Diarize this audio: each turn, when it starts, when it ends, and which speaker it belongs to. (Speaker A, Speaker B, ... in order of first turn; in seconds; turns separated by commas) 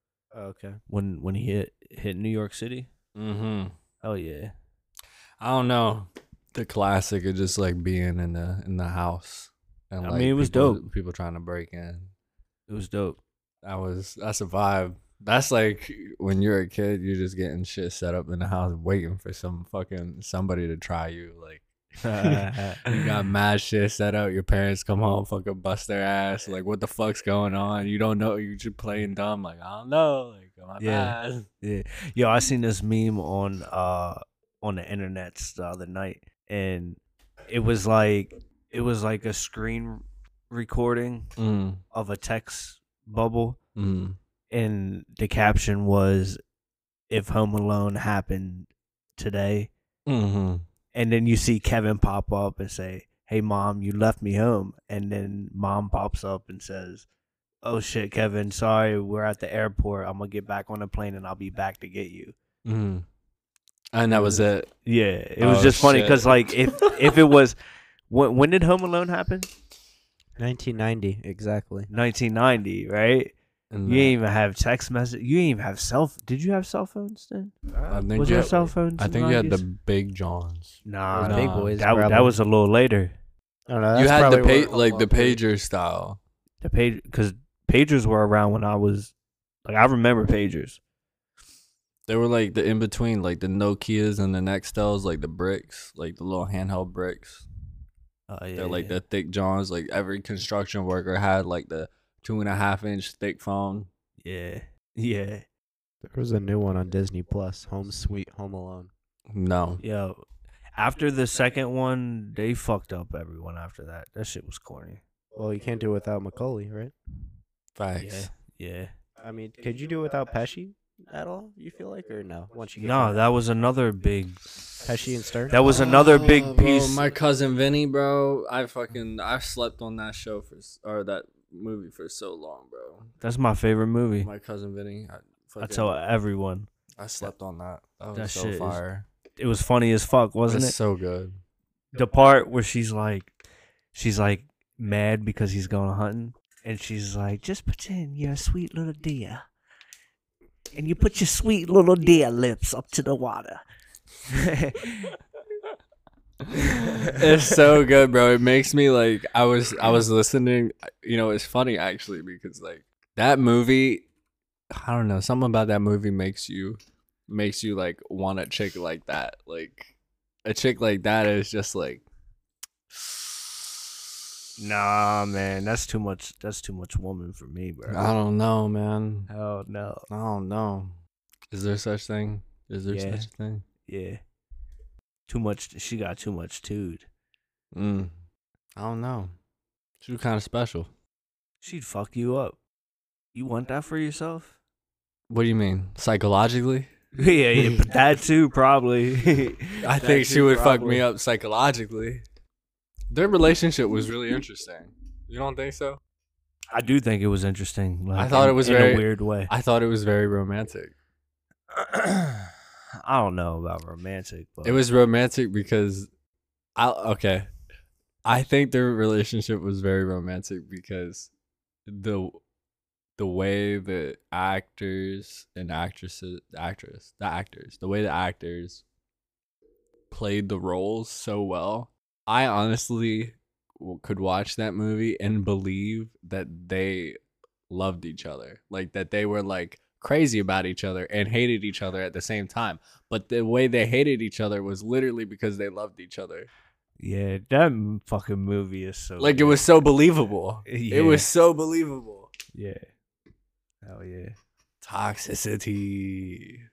Speaker A: 0.3-0.8, Speaker B: 0.9-2.9, Speaker C: 3.1-3.8, Speaker B: 4.0-4.5, Speaker C: 5.4-12.1, Speaker B: 10.0-10.8, Speaker B: 12.7-13.2, Speaker C: 13.6-21.7, Speaker B: 22.0-23.1, Speaker A: 22.2-22.7, Speaker C: 22.2-31.5, Speaker B: 30.8-41.3, Speaker C: 41.4-41.8, Speaker B: 41.9-43.6, Speaker C: 43.8-44.2, Speaker B: 44.5-46.4, Speaker B: 47.1-49.7, Speaker C: 50.1-50.7, Speaker B: 50.9-57.1, Speaker B: 57.6-62.4, Speaker C: 62.6-63.1, Speaker C: 63.9-64.7, Speaker A: 64.1-64.4, Speaker B: 64.8-69.5, Speaker C: 65.4-67.0, Speaker A: 70.4-71.9, Speaker B: 71.9-73.3, Speaker C: 73.7-74.2, Speaker B: 73.9-77.5, Speaker A: 77.7-78.7, Speaker C: 77.9-81.8, Speaker B: 78.2-79.6, Speaker B: 80.8-83.2, Speaker A: 81.1-82.3, Speaker A: 83.7-85.4, Speaker C: 84.0-86.2, Speaker B: 86.6-89.1, Speaker B: 89.7-90.8, Speaker C: 92.1-97.5, Speaker B: 98.3-99.0, Speaker C: 98.6-103.9, Speaker B: 104.2-105.5, Speaker A: 106.0-108.9, Speaker C: 109.3-109.8, Speaker B: 109.8-110.2, Speaker B: 110.8-115.0, Speaker A: 115.3-116.9, Speaker C: 117.8-118.3, Speaker B: 118.0-118.9, Speaker A: 119.2-123.3, Speaker B: 122.8-124.6, Speaker A: 124.8-125.8, Speaker B: 125.5-127.0, Speaker C: 125.7-133.1, Speaker B: 133.2-134.3, Speaker C: 134.2-135.9, Speaker B: 135.6-136.7, Speaker C: 137.0-139.1, Speaker B: 138.2-138.8, Speaker B: 139.4-140.8, Speaker C: 140.5-141.4, Speaker B: 141.9-143.3, Speaker B: 143.9-149.4, Speaker B: 150.7-153.6, Speaker B: 154.3-155.2, Speaker B: 156.8-157.2, Speaker C: 156.8-164.1, Speaker C: 164.7-169.9, Speaker C: 170.4-172.1, Speaker C: 172.9-173.7, Speaker B: 174.6-178.1, Speaker C: 177.9-179.3, Speaker B: 179.3-180.1, Speaker C: 180.1-181.0, Speaker C: 181.5-183.7, Speaker B: 182.9-183.3, Speaker B: 183.8-184.2, Speaker B: 185.3-187.1, Speaker C: 187.7-188.1, Speaker C: 188.8-189.3, Speaker C: 190.0-190.9, Speaker B: 191.6-192.6, Speaker B: 193.3-194.6, Speaker C: 195.3-196.9, Speaker B: 197.2-201.1, Speaker C: 199.8-202.2, Speaker C: 203.1-206.0, Speaker B: 206.7-209.5, Speaker C: 208.2-210.9, Speaker B: 211.7-214.8, Speaker C: 214.6-216.1, Speaker C: 216.8-217.5, Speaker C: 218.2-221.3, Speaker C: 221.9-222.4, Speaker C: 223.2-228.8, Speaker C: 230.1-237.2, Speaker C: 237.7-246.5, Speaker B: 247.0-249.6, Speaker C: 249.2-252.3, Speaker B: 250.7-251.3, Speaker B: 252.5-252.9, Speaker B: 253.8-254.4, Speaker C: 254.8-256.6